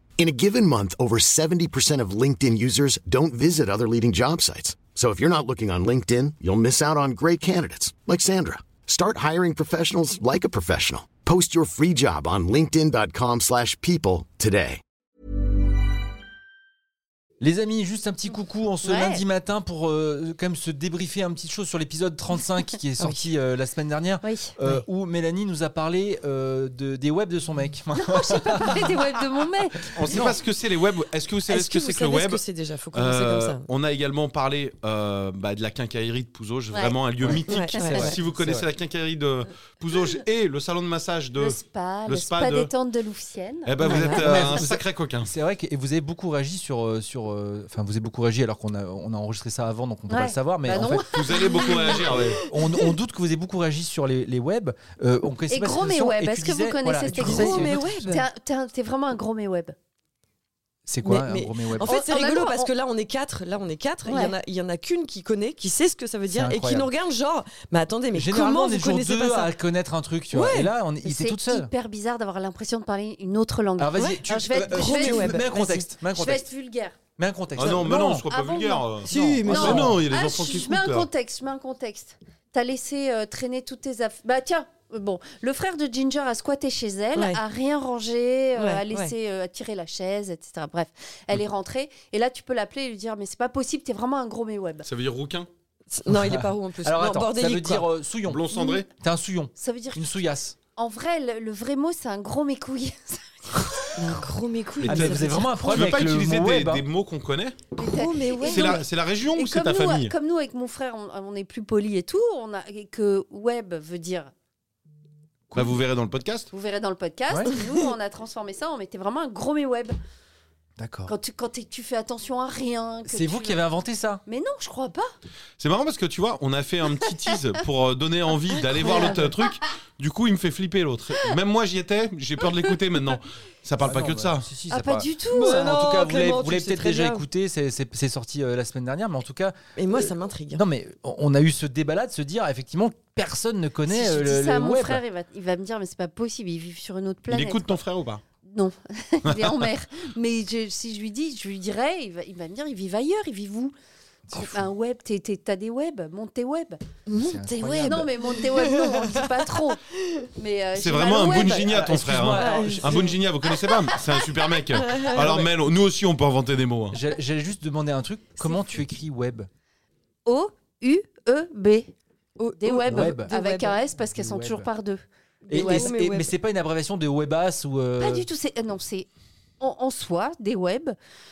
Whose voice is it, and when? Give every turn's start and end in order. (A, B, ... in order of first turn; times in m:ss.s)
0:00.2-0:14.8 A
0:17.4-0:29.0 B
0:18.8-0:19.2 C
0:23.0-0:23.2 D
0:24.2-0:24.5 C
0:28.2-0:30.0 C
0:29.9-0:42.7 E
0:30.1-0:30.4 D
0:31.5-0:33.7 D
0:36.7-0:37.0 C
0:37.2-0:38.7 B
0:37.4-0:38.2 D
0:37.7-0:38.0 C
0:41.4-0:44.6 C
0:43.6-0:45.3 E
0:43.8-0:51.1 B
0:50.1-0:52.0 C
0:51.1-0:52.4 E
0:52.2-0:57.9 B
0:55.5-0:59.7 C
0:57.1-0:58.2 D
1:00.8-1:02.0 B
1:01.0-1:09.5 D
1:01.8-1:02.7 C
1:04.0-1:04.3 C
1:06.3-1:06.9 B
1:08.1-1:11.7 B
1:10.3-1:10.8 D
1:11.0-1:15.4 C
1:13.8-1:16.4 B
1:14.0-1:16.0 D
1:16.0-1:17.0 C
1:17.2-1:18.3 B
1:17.6-1:19.2 E
1:17.7-1:34.9 C
1:19.0-1:20.0 D
1:19.1-1:20.0 B
1:19.7-1:21.1 E
1:27.1-1:27.4 D
1:28.6-1:29.1 D
1:34.8-1:35.5 E
1:35.9-1:37.9 D
1:36.1-1:40.6 B
1:38.2-1:38.9 E
1:39.6-1:40.1 C
1:40.8-1:45.7 C
1:44.0-1:45.5 D
1:44.8-1:47.7 E
1:44.8-1:46.8 B
1:47.8-1:48.8 D
1:47.8-1:54.3 C
1:48.4-1:50.1 E
1:55.5-1:56.5 E
1:56.5-1:59.9 C
1:57.3-1:57.6 B
2:00.8-2:01.1 B
2:01.1-2:03.6 C
2:03.0-2:04.2 B
2:04.2-2:05.0 C
2:05.6-2:14.5 E
2:08.7-2:09.2 D
2:13.8-2:19.6 B
2:14.7-2:15.8 C
2:15.3-2:17.2 D
2:19.8-2:20.6 D
2:20.5-2:25.0 B
2:23.9-2:27.8 C
2:27.3-2:28.2 E
2:28.4-2:33.7 C
2:29.2-2:29.6 E
2:34.3-2:34.6 B
2:34.3-2:36.8 C
2:37.1-2:39.1 D
2:37.2-2:38.1 B
2:37.8-2:39.8 C
2:40.4-2:41.8 C
2:40.7-2:47.0 E
2:41.6-2:43.1 B
2:42.3-2:43.1 D
2:44.7-2:45.5 D
2:46.9-2:49.5 B
2:48.4-2:48.7 D
2:50.2-2:51.9 C
2:52.4-2:53.8 D
2:52.6-2:55.9 C
2:52.9-2:53.3 B
2:54.0-2:54.7 B
2:55.4-2:56.3 D
2:55.5-2:58.2 B
2:58.0-2:59.1 C
2:59.6-3:00.9 C